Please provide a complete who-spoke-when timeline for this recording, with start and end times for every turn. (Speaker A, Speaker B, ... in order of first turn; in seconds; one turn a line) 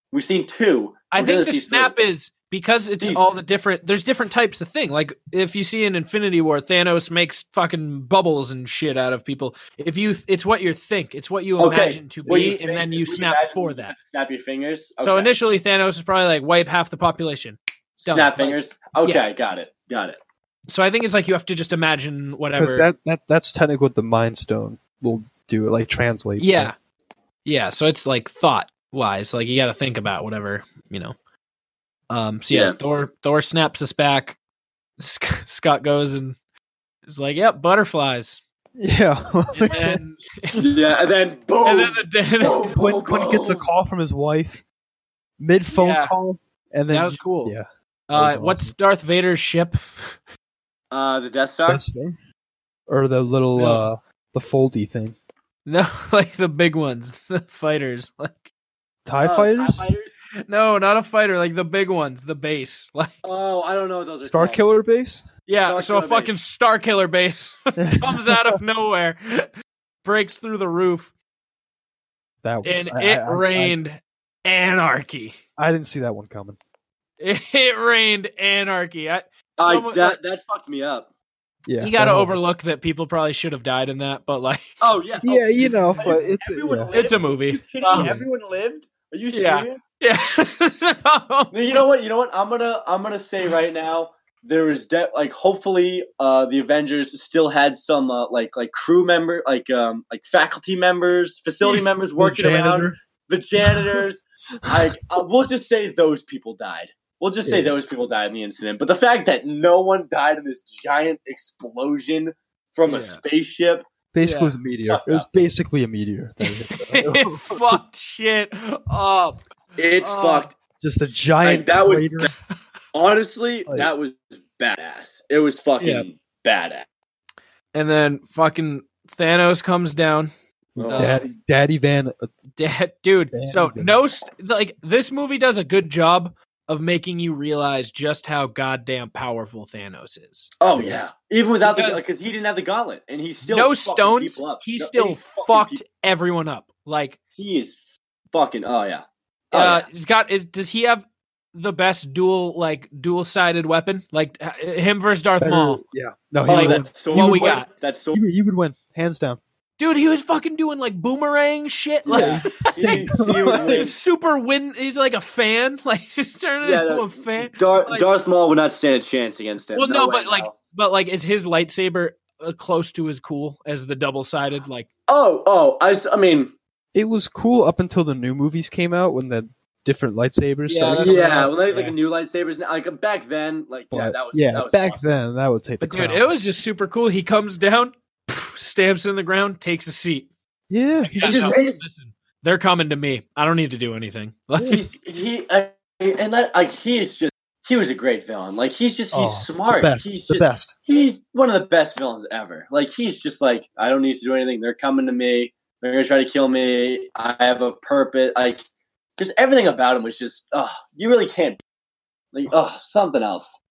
Speaker A: 0.1-2.0
Speaker B: 1.1-13.9
Speaker A: 11.6-15.3
Speaker B: 15.0-19.2
Speaker A: 18.0-20.2
Speaker B: 20.7-22.9
Speaker C: 22.5-26.7
Speaker B: 26.4-26.7
Speaker B: 27.4-31.1
Speaker B: 32.1-34.4
Speaker A: 32.5-32.8
Speaker B: 35.0-36.4
Speaker B: 37.0-38.4
Speaker C: 38.8-40.0
Speaker B: 39.5-40.7
Speaker A: 40.5-43.7
Speaker B: 41.6-42.7
Speaker C: 42.7-44.6
Speaker C: 45.4-48.7
Speaker B: 45.7-46.1
Speaker B: 46.9-47.5
Speaker B: 48.1-50.1
Speaker A: 50.9-51.8
Speaker C: 51.6-52.2
Speaker C: 52.9-55.1
Speaker B: 53.5-53.9
Speaker B: 55.6-58.5
Speaker C: 59.0-59.9
Speaker A: 59.2-60.1
Speaker B: 60.5-63.1
Speaker A: 63.2-64.6
Speaker C: 64.2-65.2
Speaker B: 65.5-69.5
Speaker A: 65.6-66.4
Speaker C: 67.8-68.6
Speaker B: 70.0-71.1
Speaker C: 72.4-73.8
Speaker B: 72.6-75.4
Speaker C: 75.6-76.6
Speaker B: 77.2-80.2
Speaker A: 79.6-81.1
Speaker C: 81.7-82.4
Speaker B: 81.8-84.8
Speaker A: 84.8-89.8
Speaker C: 85.2-86.9
Speaker B: 85.8-86.2
Speaker B: 86.9-88.2
Speaker C: 87.9-88.3
Speaker B: 89.3-91.5
Speaker A: 91.5-113.8
Speaker C: 102.2-102.9
Speaker C: 103.6-104.0
Speaker C: 104.6-104.9
Speaker C: 107.4-107.7
Speaker B: 112.9-113.2
Speaker C: 114.1-117.8
Speaker B: 114.2-114.6
Speaker A: 114.9-115.3
Speaker B: 116.4-119.4
Speaker A: 119.8-120.5
Speaker B: 120.0-120.5
Speaker C: 120.8-122.3
Speaker A: 121.4-122.3
Speaker A: 122.9-126.8
Speaker B: 125.8-126.1
Speaker B: 127.7-130.3
Speaker A: 130.8-131.2
Speaker C: 130.8-132.3
Speaker B: 130.8-131.3
Speaker B: 132.6-140.5
Speaker C: 133.3-133.9
Speaker A: 140.6-145.8
Speaker C: 140.7-141.0
Speaker B: 141.6-142.0
Speaker B: 143.4-147.2
Speaker A: 147.4-147.8
Speaker A: 148.3-149.8
Speaker B: 149.5-155.8
Speaker C: 155.4-157.6
Speaker A: 156.5-158.2
Speaker B: 156.5-157.7
Speaker C: 158.1-159.4
Speaker B: 159.8-168.1
Speaker A: 162.0-164.0
Speaker C: 162.1-163.9
Speaker A: 166.6-170.5
Speaker B: 169.7-174.9
Speaker A: 175.1-176.5
Speaker C: 176.9-181.9
Speaker B: 180.7-181.6
Speaker A: 180.8-185.1
Speaker C: 183.9-186.3
Speaker B: 185.8-190.3
Speaker C: 190.7-191.6
Speaker B: 190.9-194.8
Speaker A: 191.2-191.8
Speaker A: 194.7-208.6
Speaker C: 199.1-200.7
Speaker A: 209.2-211.6
Speaker A: 212.3-213.6